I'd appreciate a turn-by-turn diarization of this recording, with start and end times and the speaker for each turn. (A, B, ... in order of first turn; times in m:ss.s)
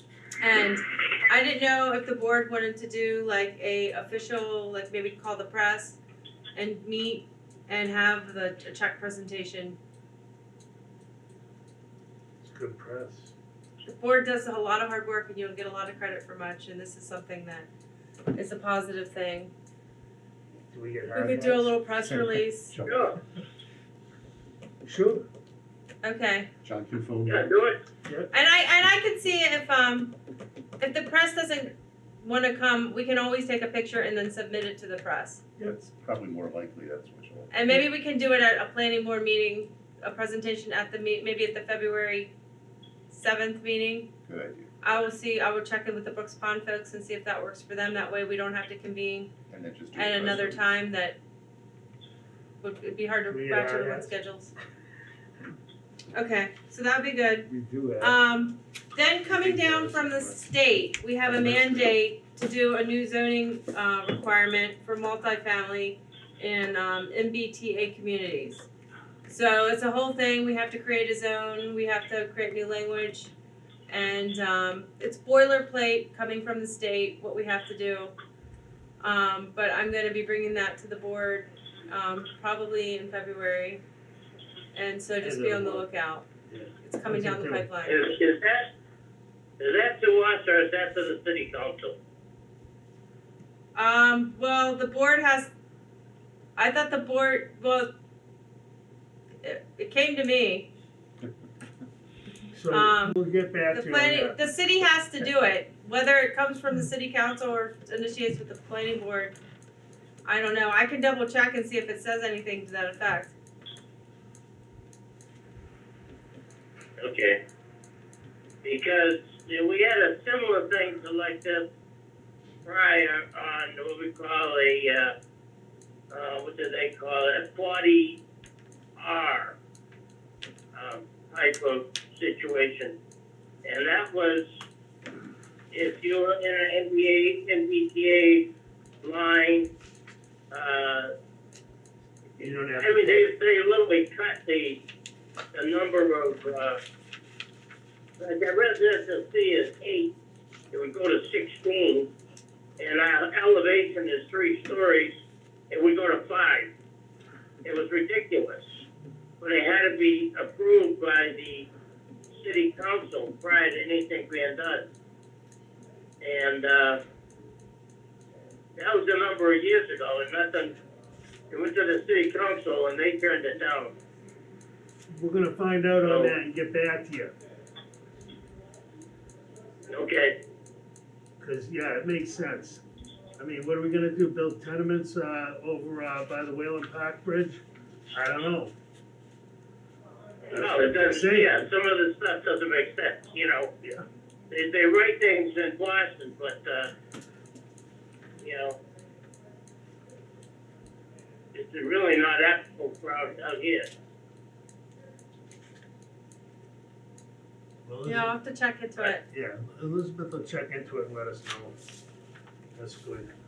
0:00.4-0:06.0 A
0:06.6-0:09.8 A
0:12.4-0:13.3 B
0:13.9-0:17.7 A
0:18.3-0:19.5 A
0:20.7-0:21.8 B
0:21.1-0:22.8 A
0:22.0-0:23.2 C
0:22.8-0:23.2 D
0:24.8-0:25.2 B
0:26.0-0:26.5 A
0:26.6-0:27.5 C
0:27.3-0:27.8 D
0:28.3-0:30.1 A
0:30.8-0:35.4 A
0:35.6-0:37.5 C
0:37.5-0:42.3 A
0:43.1-0:44.1 A
0:44.2-0:44.7 C
0:44.8-0:49.3 A
0:49.5-0:50.6 C
0:49.9-0:51.2 A
0:52.6-0:54.5 A
0:53.3-0:54.1 B
0:56.1-1:08.7 A
0:57.5-0:58.2 B
0:59.3-1:00.4 B
1:01.4-1:01.8 B
1:09.3-1:13.3 A
1:13.9-1:18.1 A
1:19.0-1:23.8 A
1:24.7-1:26.3 A
1:25.2-1:25.8 B
1:26.5-1:27.7 B
1:26.8-1:28.0 A
1:27.8-1:28.7 D
1:29.6-1:32.0 D
1:33.7-1:35.5 A
1:36.6-1:37.9 A
1:39.4-1:40.7 A
1:42.6-1:44.4 B
1:42.7-1:43.2 A
1:43.7-1:49.4 A
1:50.2-1:53.3 A
1:57.0-1:57.4 D
1:58.6-2:01.7 D
2:02.6-2:05.1 D
2:06.1-2:08.2 D
2:09.0-2:09.6 D
2:10.8-2:13.0 D
2:13.6-2:14.4 D
2:15.7-2:18.5 D
2:19.0-2:19.7 D
2:20.5-2:21.1 D
2:22.4-2:23.3 B
2:22.4-2:24.8 D
2:25.5-2:26.8 D
2:28.2-2:30.1 D
2:30.7-2:32.1 D
2:32.8-2:35.2 D
2:35.7-2:36.7 D
2:37.6-2:38.8 D
2:39.4-2:41.7 D
2:42.3-2:44.9 D
2:46.2-2:47.0 D
2:48.8-2:50.8 D
2:51.5-2:53.9 D
2:55.1-2:57.3 B
2:56.0-2:56.4 D
2:59.9-3:00.4 D
3:01.4-3:02.8 B
3:03.4-3:08.7 B
3:10.5-3:13.7 D
3:10.5-3:11.6 B
3:14.5-3:16.9 D
3:18.4-3:18.8 D
3:21.5-3:23.9 D
3:27.8-3:28.3 B
3:28.0-3:29.2 A
3:29.3-3:31.8 B
3:32.7-3:33.3 B